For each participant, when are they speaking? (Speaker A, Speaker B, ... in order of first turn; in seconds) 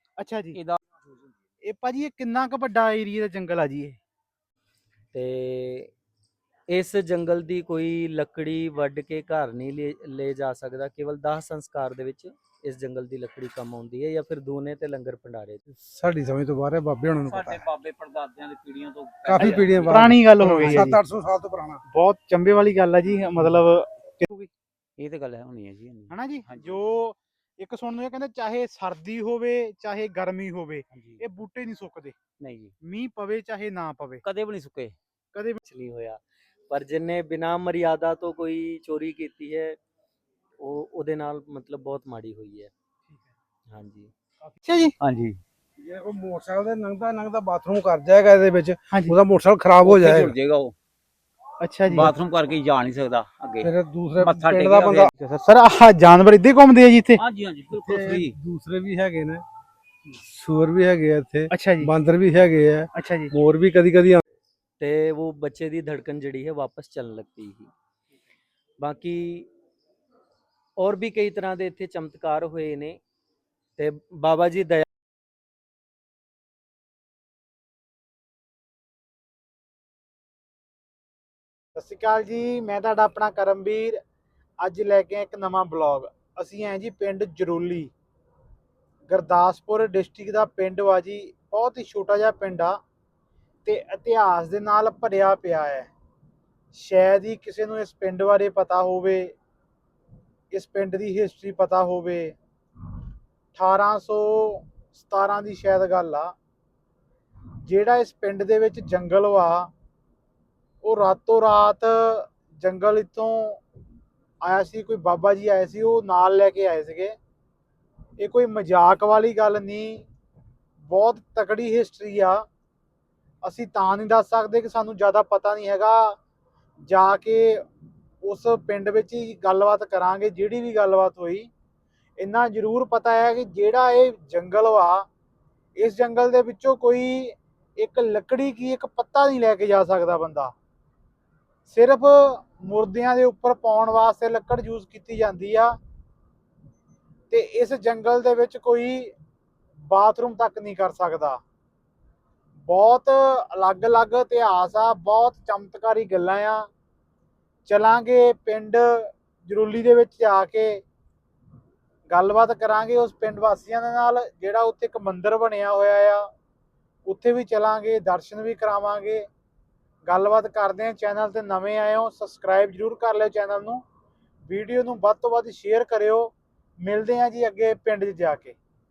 Speaker A: 0.2-0.6, 1.7-4.0, 19.4-21.0, 21.9-24.5, 26.1-32.1, 32.8-34.2, 35.3-35.6, 44.4-45.0, 48.9-49.2, 51.6-52.1, 55.2-57.2, 61.5-61.9, 63.0-63.3, 81.8-84.0, 84.6-87.9, 89.1-92.8, 93.7-95.9, 96.7-99.3, 100.5-102.3, 103.5-106.3, 107.7-109.7, 110.8-113.6, 114.4-117.2, 118.2-120.1, 120.9-122.5, 123.4-126.2, 126.9-127.6, 128.2-131.5, 132.2-135.1, 135.8-140.5, 141.7-145.8, 147.3-149.1, 149.9-151.4, 152.7-156.7, 157.7-160.8, 162.1-166.3, 167.1-169.3, 170.1-173.8, 174.5-178.6
Speaker B: 0.5-0.8, 17.2-20.0, 25.0-26.8, 30.9-31.2, 32.4-32.7, 34.2-34.9, 45.0-45.4, 49.8-50.7, 51.9-55.1, 57.2-58.4
Speaker C: 5.1-5.9, 6.7-15.6, 35.7-39.8, 40.6-42.7, 43.7-44.1, 64.8-67.7, 68.8-69.5, 70.8-73.0, 73.8-74.9
Speaker D: 15.7-17.6, 19.3-21.8, 45.8-50.4, 53.6-55.1, 57.7-59.4, 60.2-64.2